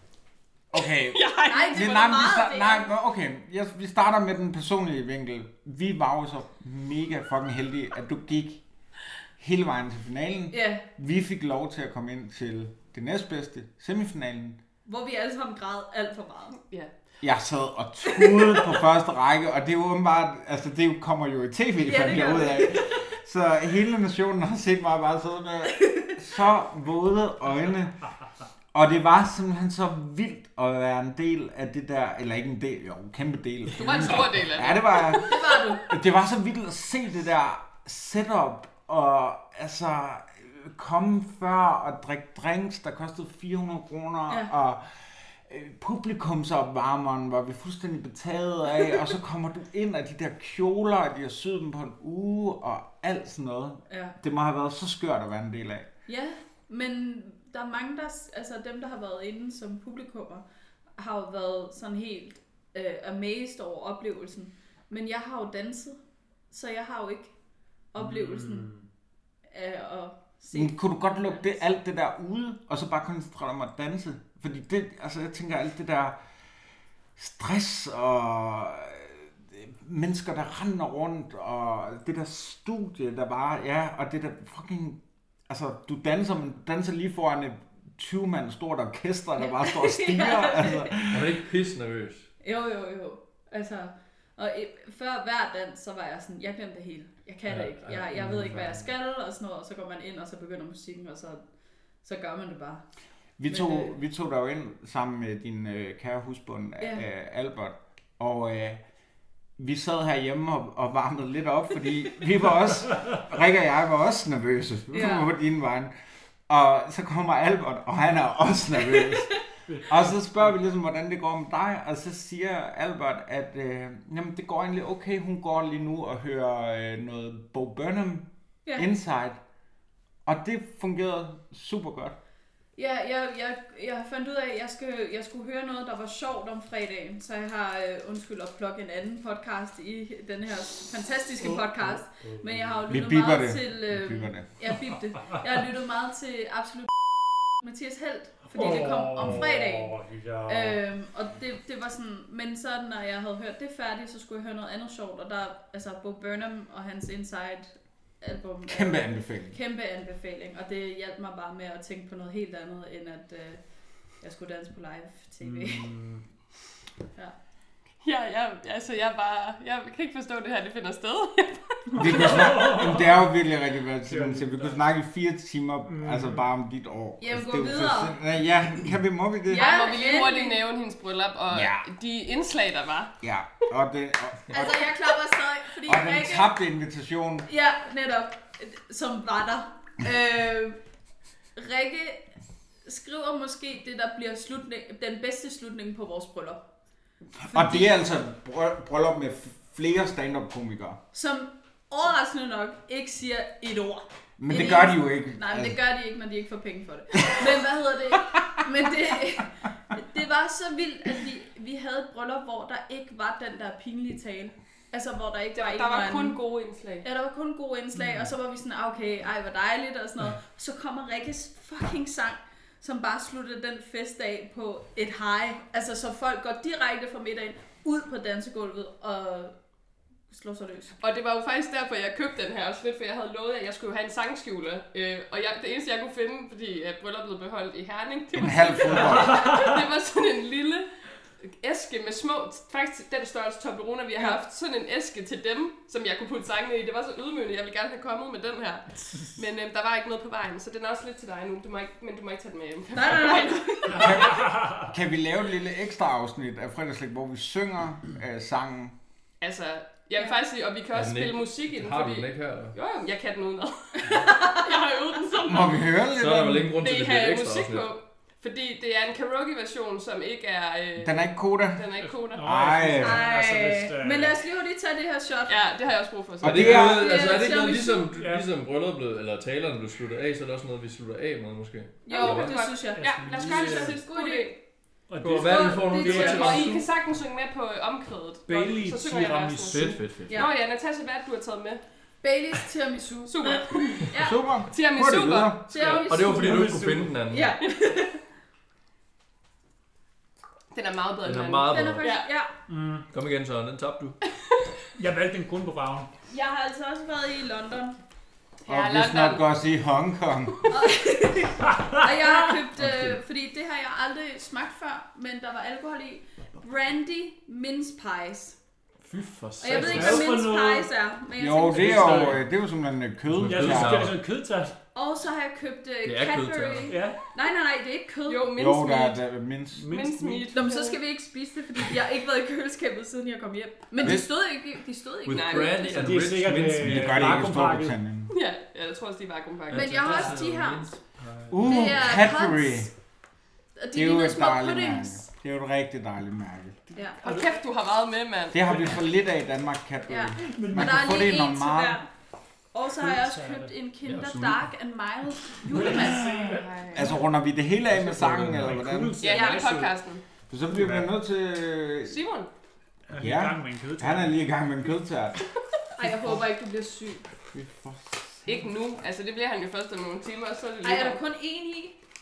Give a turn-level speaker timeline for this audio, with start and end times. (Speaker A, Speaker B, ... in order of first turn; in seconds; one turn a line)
Speaker A: 0.7-8.6
Speaker B: 1.1-2.2
Speaker C: 1.5-2.9
Speaker A: 9.4-14.6
Speaker C: 10.5-10.9
Speaker C: 14.9-16.6
Speaker A: 17.2-28.0
Speaker C: 21.8-23.0
Speaker A: 28.7-55.9
Speaker B: 33.8-35.3
Speaker D: 33.8-34.4
Speaker C: 35.2-35.9
Speaker C: 53.9-54.2
Speaker C: 56.1-60.5
Speaker C: 61.0-66.0
Speaker C: 66.5-67.3
Speaker C: 67.9-68.7
Speaker E: 68.0-68.8
Speaker C: 69.5-71.6
Speaker A: 70.5-76.2
Speaker A: 77.2-91.4
Speaker C: 89.4-90.9
Speaker D: 91.0-92.3
Speaker C: 92.4-101.4
Speaker D: 97.5-98.9
Speaker C: 102.0-102.8
Speaker A: 103.4-108.8
Speaker C: 103.5-103.9
Speaker C: 106.8-107.0
Speaker A: 109.6-115.9
Speaker C: 114.9-115.3
Speaker A: 116.5-129.4
Speaker E: 119.7-120.0
Speaker A: 130.3-132.2
Speaker C: 132.8-149.9
Speaker E: 141.4-142.6
Speaker A: 142.9-144.5
Speaker E: 148.5-150.8
Speaker C: 150.5-163.6
Speaker A: 158.7-159.6
Speaker C: 164.2-165.9
Speaker E: 165.4-166.2
Speaker B: 168.0-172.3
Speaker E: 171.9-173.3
Speaker A: 172.0-179.7
Speaker E: 174.1-174.8
Speaker E: 175.9-176.5
Speaker C: 177.2-178.2
Speaker C: 179.5-180.6
Speaker B: 179.5-183.2
Speaker A: 181.5-181.9
Speaker A: 183.2-184.9
Speaker C: 184.5-186.6
Speaker A: 185.8-187.5
Speaker C: 187.5-190.8
Speaker C: 191.6-192.3
Speaker C: 192.8-196.7
Speaker A: 197.5-201.0
Speaker C: 197.5-198.0
Speaker C: 201.1-216.4
Speaker A: 204.4-205.8
Speaker B: 215.6-217.1
Speaker C: 217.0-229.6
Speaker E: 218.0-218.3
Speaker C: 230.3-231.0
Speaker B: 231.0-240.9
Speaker A: 238.3-239.5
Speaker E: 239.1-239.8
Speaker B: 241.4-254.3
Speaker C: 252.9-254.3
Speaker A: 253.9-258.9
Speaker E: 254.3-254.9
Speaker B: 259.4-266.1
Speaker D: 260.9-262.8
Speaker C: 264.1-264.8
Speaker A: 265.4-266.8
Speaker D: 266.1-267.9
Speaker B: 266.8-272.4
Speaker A: 271.0-273.3
Speaker E: 272.0-274.4
Speaker C: 273.0-275.6
Speaker B: 275.5-277.1
Speaker A: 276.4-277.2
Speaker D: 276.4-282.6
Speaker C: 276.7-278.1
Speaker E: 278.1-278.4
Speaker C: 282.1-284.6
Speaker B: 282.1-284.6
Speaker E: 282.9-284.0
Speaker E: 285.1-286.7
Speaker D: 285.2-286.9
Speaker C: 285.4-286.8
Speaker B: 286.1-291.8
Speaker E: 288.5-290.0
Speaker D: 289.7-290.5
Speaker C: 292.2-294.4
Speaker B: 293.3-294.0
Speaker A: 294.2-295.7
Speaker B: 294.7-296.0
Speaker C: 295.7-296.7
Speaker D: 295.7-297.5
Speaker E: 296.2-297.2
Speaker C: 297.3-298.2
Speaker B: 300.7-302.3
Speaker D: 301.2-302.1
Speaker C: 301.7-302.5
Speaker E: 302.7-303.1
Speaker D: 303.1-304.2
Speaker E: 305.0-306.1
Speaker C: 306.3-308.0
Speaker B: 308.6-309.5
Speaker A: 308.7-310.7
Speaker C: 310.7-318.6
Speaker E: 311.7-312.3
Speaker D: 312.8-313.2
Speaker D: 319.0-320.3
Speaker C: 319.6-322.4
Speaker E: 319.7-320.9
Speaker A: 321.4-324.1
Speaker E: 321.7-322.4
Speaker D: 323.3-324.1
Speaker E: 323.4-324.8
Speaker C: 324.9-328.6
Speaker D: 326.0-327.0
Speaker E: 326.9-327.2
Speaker B: 328.3-329.2
Speaker A: 328.6-329.9
Speaker E: 329.7-330.6
Speaker B: 329.9-331.0
Speaker C: 330.5-336.1
Speaker D: 335.2-337.4
Speaker B: 335.3-336.1
Speaker E: 336.0-338.0
Speaker A: 336.8-338.3
Speaker B: 338.3-340.3
Speaker C: 339.7-341.0
Speaker D: 339.7-341.9
Speaker A: 341.5-342.9
Speaker C: 341.6-342.9
Speaker C: 343.8-345.3
Speaker A: 343.9-346.8
Speaker C: 346.9-347.2
Speaker E: 347.2-347.6
Speaker B: 347.2-349.0
Speaker A: 348.5-352.0
Speaker C: 350.1-352.1
Speaker E: 350.4-351.2
Speaker C: 352.7-356.6
Speaker E: 353.0-353.7
Speaker D: 354.0-354.7
Speaker E: 355.7-357.0
Speaker B: 356.4-357.2
Speaker A: 356.9-359.2
Speaker E: 357.9-359.9
Speaker B: 359.2-360.2
Speaker C: 359.3-359.7
Speaker A: 360.5-362.2
Speaker B: 362.1-362.5
Speaker E: 363.1-364.4
Speaker A: 363.2-365.4
Speaker C: 366.0-367.2
Speaker A: 367.5-368.7
Speaker B: 368.5-371.2
Speaker C: 370.8-372.0